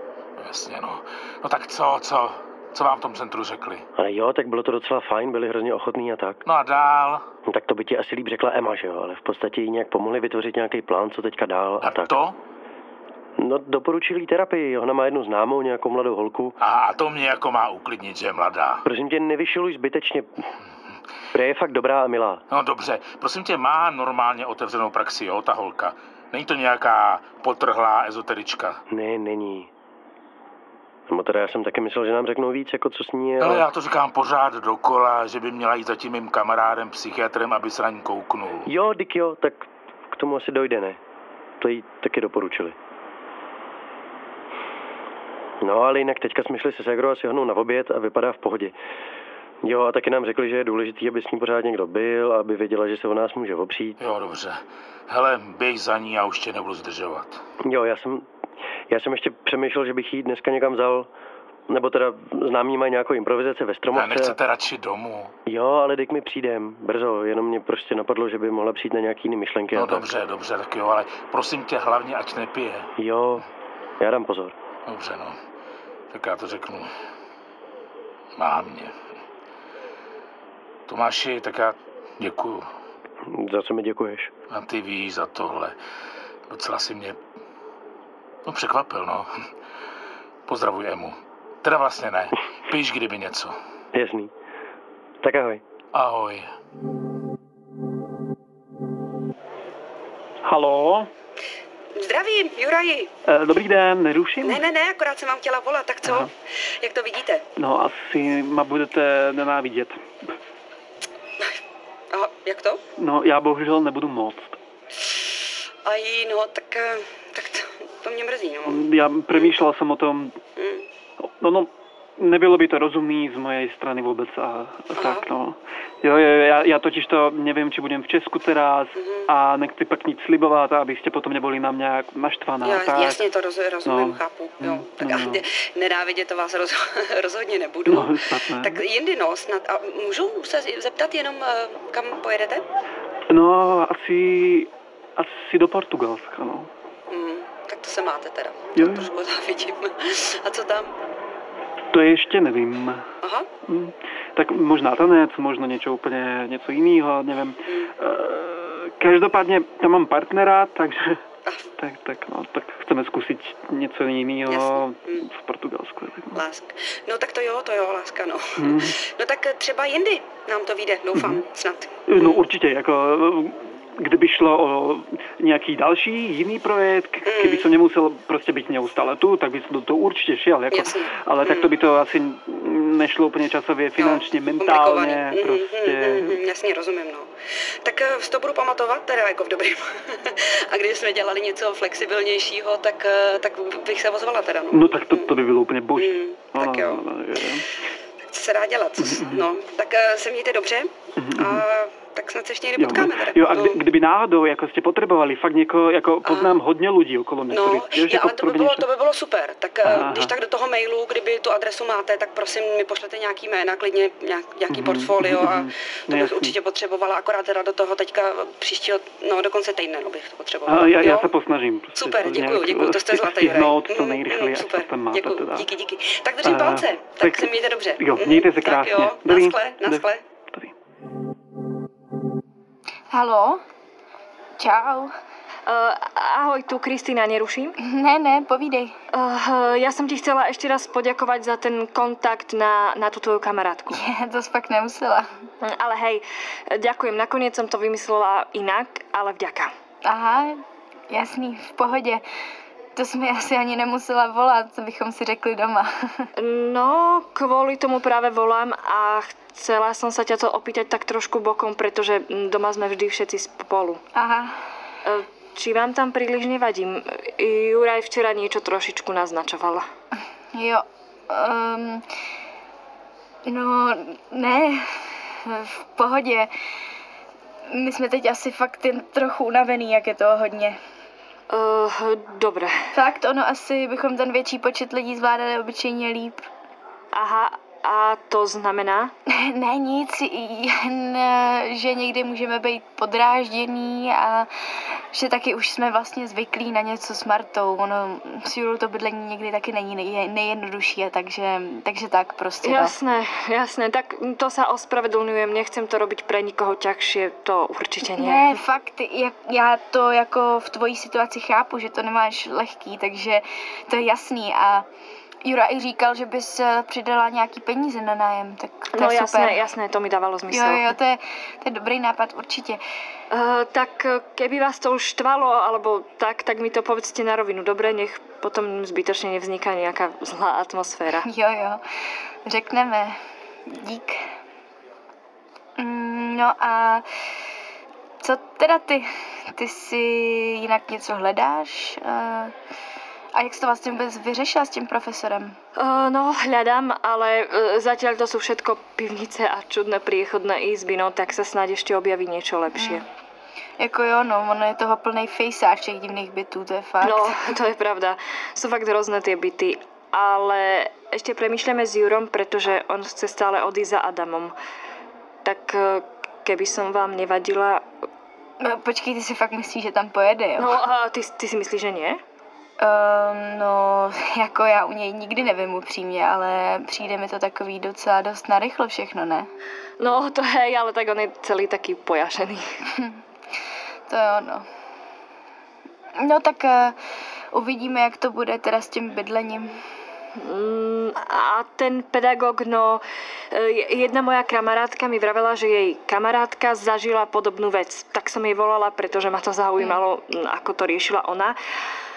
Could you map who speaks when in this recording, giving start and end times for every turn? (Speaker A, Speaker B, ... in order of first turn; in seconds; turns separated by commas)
Speaker A: 0.4-3.9, Speaker B: 3.9-6.4, Speaker A: 6.4-7.2, Speaker B: 7.5-12.1, Speaker A: 11.8-12.4, Speaker B: 13.4-16.6, Speaker A: 16.6-18.8, Speaker B: 18.8-20.5, Speaker B: 21.3-22.4, Speaker A: 22.5-28.8, Speaker B: 28.9-29.7, Speaker B: 31.1-33.6, Speaker A: 33.4-38.7, Speaker B: 38.6-41.0, Speaker B: 41.6-42.8, Speaker B: 45.6-48.7, Speaker B: 49.6-54.0, Speaker A: 54.0-57.4, Speaker B: 57.6-58.3, Speaker B: 58.9-61.1, Speaker B: 61.7-64.4, Speaker A: 63.9-65.3, Speaker B: 65.5-70.1, Speaker A: 69.7-72.9, Speaker B: 73.0-73.4, Speaker B: 74.0-74.5, Speaker A: 74.8-75.4, Speaker A: 76.1-76.9, Speaker A: 78.3-78.9, Speaker A: 80.9-82.7, Speaker B: 83.2-84.3, Speaker A: 84.5-85.7, Speaker A: 86.5-87.2, Speaker A: 88.4-89.3, Speaker A: 90.5-93.5, Speaker B: 93.9-94.3, Speaker B: 95.2-95.6, Speaker A: 95.9-96.5, Speaker C: 100.4-101.1, Speaker D: 102.0-103.1, Speaker C: 103.3-104.6, Speaker D: 104.4-107.4, Speaker C: 107.6-110.0, Speaker D: 112.1-112.8, Speaker C: 113.0-114.6, Speaker D: 115.8-119.5, Speaker C: 118.7-120.4, Speaker D: 120.5-120.8, Speaker C: 121.3-133.2, Speaker D: 124.9-125.3, Speaker D: 128.9-129.3, Speaker D: 132.6-142.6, Speaker C: 133.8-135.4, Speaker C: 137.9-138.8, Speaker C: 143.3-146.7, Speaker D: 147.1-150.9, Speaker C: 148.8-149.1, Speaker C: 151.9-153.0, Speaker C: 153.7-161.2, Speaker C: 161.8-166.4, Speaker D: 164.5-165.3, Speaker D: 166.3-172.4, Speaker C: 168.6-168.9, Speaker C: 171.1-171.4, Speaker C: 172.1-186.4, Speaker D: 177.2-177.7, Speaker D: 180.7-181.7, Speaker D: 184.0-187.3, Speaker D: 187.8-195.4, Speaker C: 194.7-197.6, Speaker D: 195.9-197.0, Speaker D: 198.3-203.8, Speaker C: 199.0-199.5, Speaker C: 201.2-201.6, Speaker C: 202.8-208.9, Speaker D: 206.2-206.6, Speaker D: 207.5-221.3, Speaker C: 209.8-210.3, Speaker C: 214.7-216.6, Speaker C: 220.7-225.7, Speaker D: 221.9-230.2, Speaker C: 226.4-230.7, Speaker E: 233.1-233.6, Speaker E: 234.6-235.1, Speaker F: 235.7-237.7, Speaker E: 237.8-238.9, Speaker F: 239.1-244.0, Speaker E: 243.9-245.3, Speaker F: 245.6-249.7, Speaker E: 250.0-252.2, Speaker E: 252.9-256.2, Speaker F: 256.4-264.0, Speaker E: 264.1-264.6, Speaker F: 265.1-269.8, Speaker E: 270.5-272.0, Speaker E: 273.4-276.5, Speaker E: 277.7-280.8, Speaker F: 281.5-282.7, Speaker E: 282.9-286.4, Speaker F: 287.1-289.1, Speaker E: 289.3-294.5, Speaker E: 295.1-302.9, Speaker F: 302.6-308.6, Speaker E: 308.1-314.9, Speaker E: 315.4-319.6, Speaker F: 318.9-320.9, Speaker E: 320.5-322.8, Speaker F: 323.3-331.2, Speaker E: 331.2-331.8, Speaker E: 332.4-334.2, Speaker E: 335.8-337.1, Speaker E: 338.2-342.5, Speaker E: 343.3-345.6, Speaker F: 345.8-353.0, Speaker E: 352.7-353.0, Speaker E: 353.8-357.5, Speaker F: 357.0-364.5, Speaker F: 365.4-367.8, Speaker E: 368.6-370.8, Speaker F: 370.6-372.2, Speaker E: 372.8-379.5, Speaker F: 380.0-382.6, Speaker E: 384.1-384.6, Speaker E: 386.2-386.9, Speaker E: 387.5-389.7, Speaker F: 390.5-393.0, Speaker F: 393.6-401.5